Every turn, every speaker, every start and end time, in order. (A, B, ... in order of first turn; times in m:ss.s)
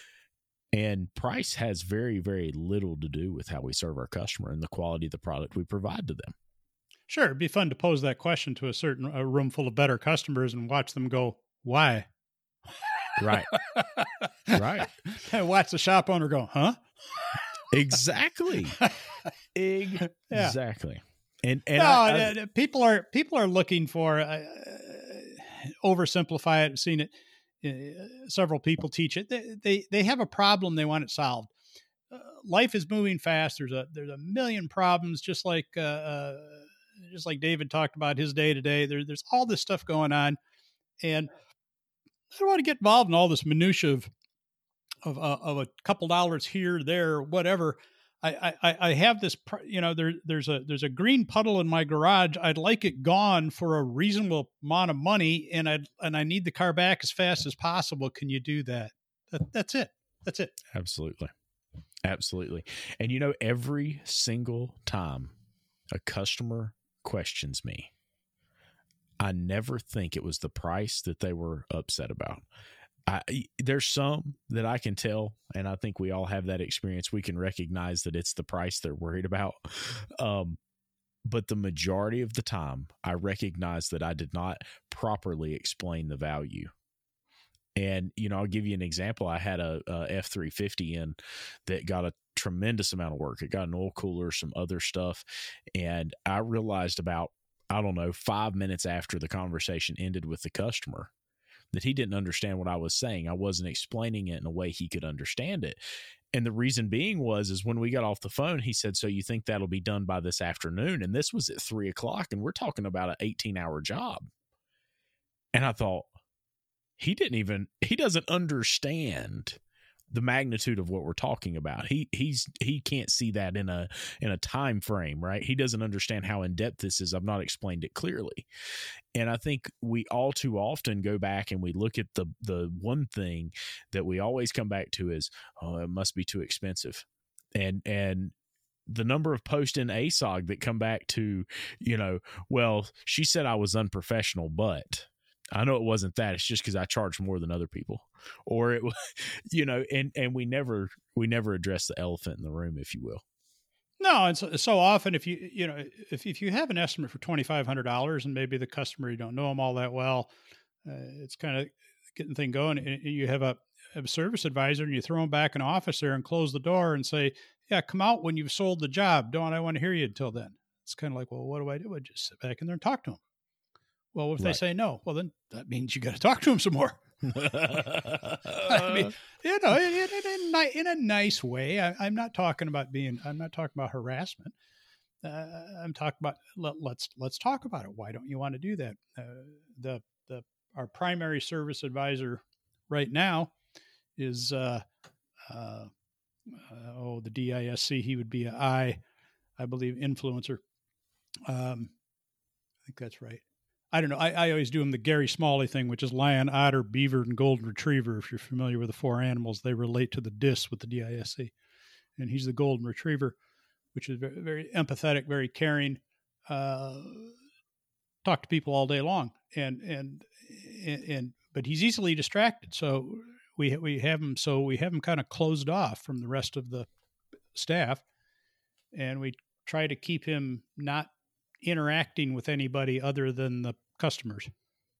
0:00.7-0:06.3 A
0:07.1-0:12.1 B
0:13.2-0:13.5 A
0:13.5-0:16.8 B
0:14.5-0:14.9 A
0:17.7-0:18.8 A
0:19.5-0:22.3 A
0:20.2-0:20.6 B
0:21.8-0:27.1 B
0:27.6-0:31.5 B
0:32.1-0:40.4 B
0:41.0-0:41.3 B
0:42.3-0:44.1 B
0:45.0-1:00.5 B
1:00.7-1:01.3 A
1:02.0-1:05.3 A
1:05.9-1:07.9 A
1:09.2-1:12.4 A
1:13.1-1:20.6 A
1:21.2-1:26.7 A
1:27.8-1:31.2 A
1:31.7-1:35.2 A
1:35.7-1:41.1 A
1:41.7-1:45.8 A
1:46.3-1:54.3 A
1:55.5-1:56.1 A
1:57.0-1:59.6 A
2:00.1-2:08.5 A
2:09.1-2:18.3 A
2:18.9-2:33.2 A
2:34.0-2:40.3 B
2:40.8-2:53.2 B
2:54.1-2:57.8 B
2:57.3-2:59.1 A
2:58.5-3:04.5 B
3:05.2-3:13.5 B
3:14.2-3:14.8 B
3:15.5-3:15.9 B
3:16.5-3:19.0 B
3:19.6-3:20.6 B
3:21.5-3:21.9 B
3:22.8-3:31.5 B
3:32.2-3:33.3 B
3:33.9-3:37.3 B
3:38.2-3:46.9 B
3:47.5-3:48.0 B
3:48.9-3:51.1 B
3:51.6-3:54.5 B